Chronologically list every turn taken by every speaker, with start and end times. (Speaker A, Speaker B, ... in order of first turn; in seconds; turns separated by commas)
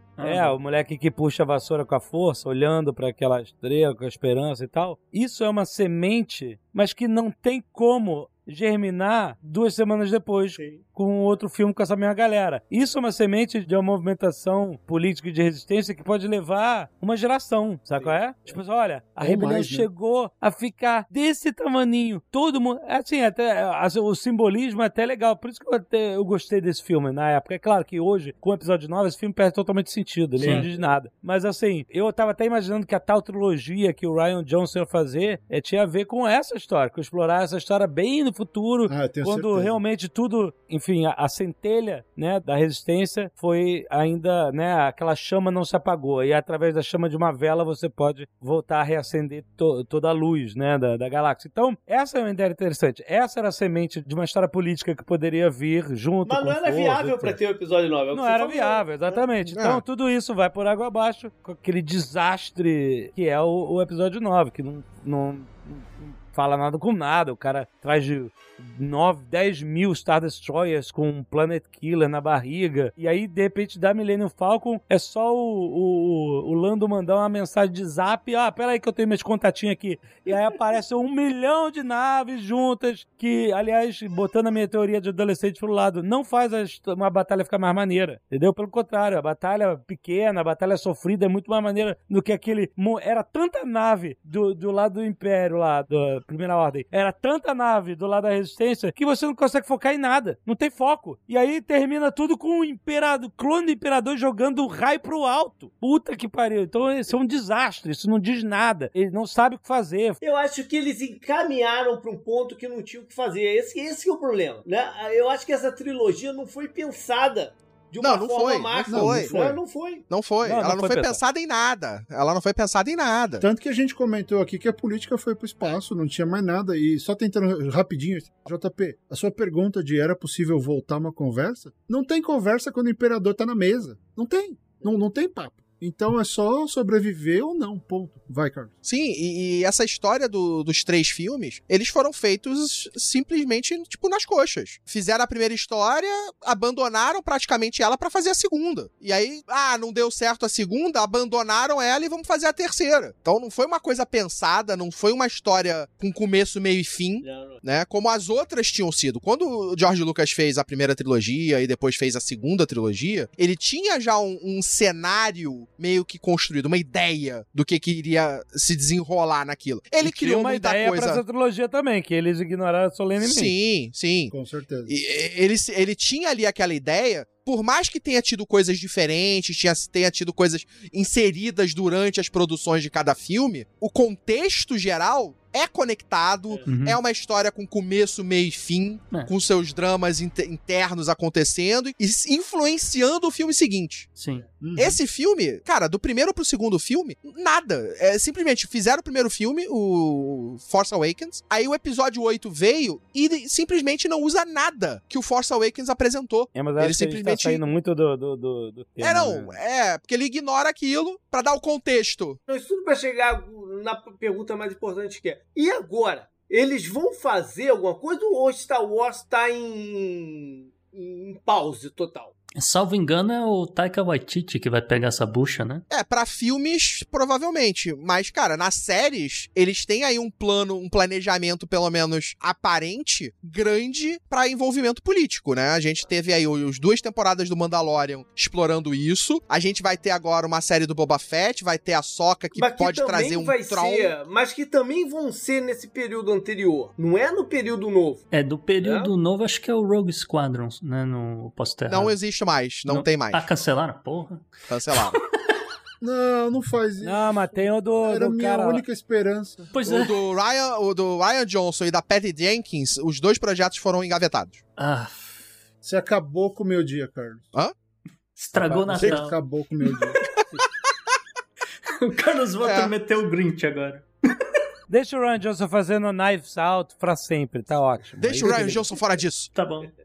Speaker A: 0.2-0.6, Speaker B: 0.2-57.4, Speaker C: 19.2-19.9, Speaker D: 30.4-30.8, Speaker A: 30.4-30.7, Speaker C: 38.9-39.8, Speaker D: 56.2-59.2, Speaker B: 58.1-110.2, Speaker E: 59.4-59.8, Speaker D: 110.2-120.0, Speaker E: 118.0-119.3, Speaker C: 118.9-119.6, Speaker E: 120.1-123.4, Speaker B: 120.4-121.2, Speaker C: 123.4-138.7, Speaker E: 138.8-171.2, Speaker D: 157.2-157.6, Speaker B: 170.0-173.5, Speaker E: 173.2-174.3, Speaker C: 174.3-175.0, Speaker E: 174.9-194.1, Speaker A: 186.7-187.0, Speaker A: 194.2-194.4, Speaker C: 194.6-195.0, Speaker E: 194.8-207.6, Speaker B: 206.5-209.6, Speaker E: 209.0-212.4, Speaker D: 212.5-222.3, Speaker A: 222.6-225.8, Speaker E: 225.9-244.1, Speaker D: 242.5-248.2, Speaker A: 248.3-252.2, Speaker D: 248.8-249.1, Speaker E: 251.9-253.5, Speaker A: 252.9-255.5, Speaker E: 254.7-255.2, Speaker C: 256.0-259.7, Speaker B: 257.0-258.8, Speaker A: 259.7-260.2, Speaker E: 259.8-264.6, Speaker A: 264.8-265.4, Speaker C: 265.8-267.5, Speaker A: 268.4-270.1, Speaker C: 268.5-270.2, Speaker A: 271.9-274.1, Speaker E: 272.6-272.9, Speaker B: 274.9-278.8, Speaker E: 278.2-279.5, Speaker D: 278.4-278.8, Speaker A: 279.5-279.9